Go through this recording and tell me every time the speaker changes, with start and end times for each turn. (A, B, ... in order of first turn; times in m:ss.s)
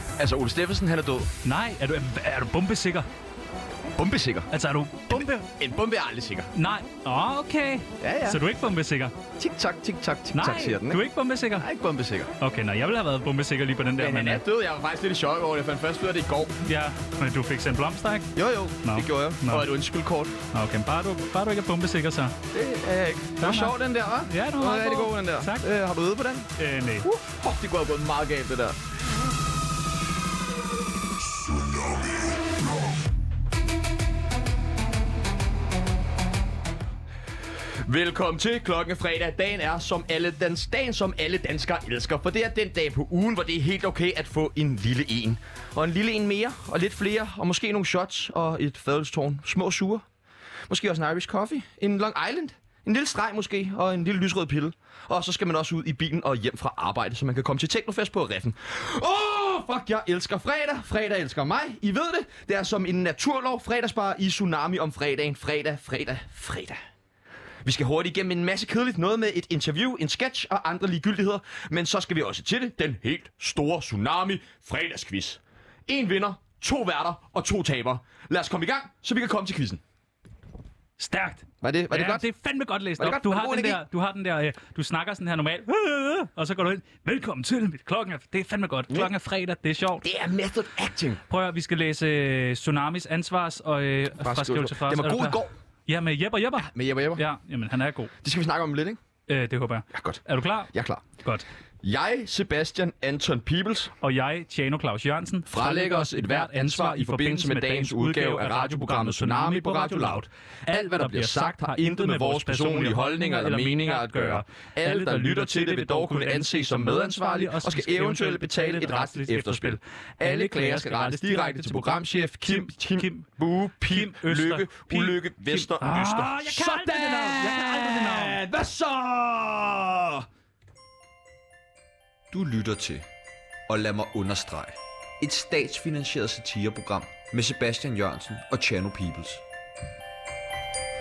0:00.2-0:01.3 A
0:01.4-0:03.1 B
0:04.0-0:04.5 A
0:04.5-0:05.5 B
0:05.1-0:06.5 A
0:06.5-0:09.2 B
0:08.0-0:08.4 A
0:09.4-0:11.0 A
0:10.3-0:11.7 B
0:11.6-0:12.3 A
0:12.4-0:14.4 B
0:14.0-0:16.6 A
0:16.6-0:19.7 B
0:18.3-0:20.3 A
0:20.5-0:22.4 B
0:22.5-0:26.5 A
0:23.4-0:25.7 B
0:26.6-0:27.1 B
0:27.0-0:28.8 A
0:31.5-0:32.0 A
0:37.8-0:50.0 A
0:50.7-1:06.8 A
1:07.6-1:19.8 A
1:21.0-1:30.0 B
1:21.6-1:22.2 A
1:23.0-1:23.8 A
1:30.0-1:31.2 A
1:31.3-1:38.1 B
1:34.2-1:35.5 A
1:36.6-1:37.2 A
1:38.2-1:39.0 A
1:39.3-1:40.7 B
1:39.9-1:41.0 A
1:41.8-1:43.9 A
1:44.0-2:03.3 B
1:45.4-2:10.2 A
2:03.8-2:08.4 B
2:12.3-2:13.0 C
2:13.7-2:19.4 C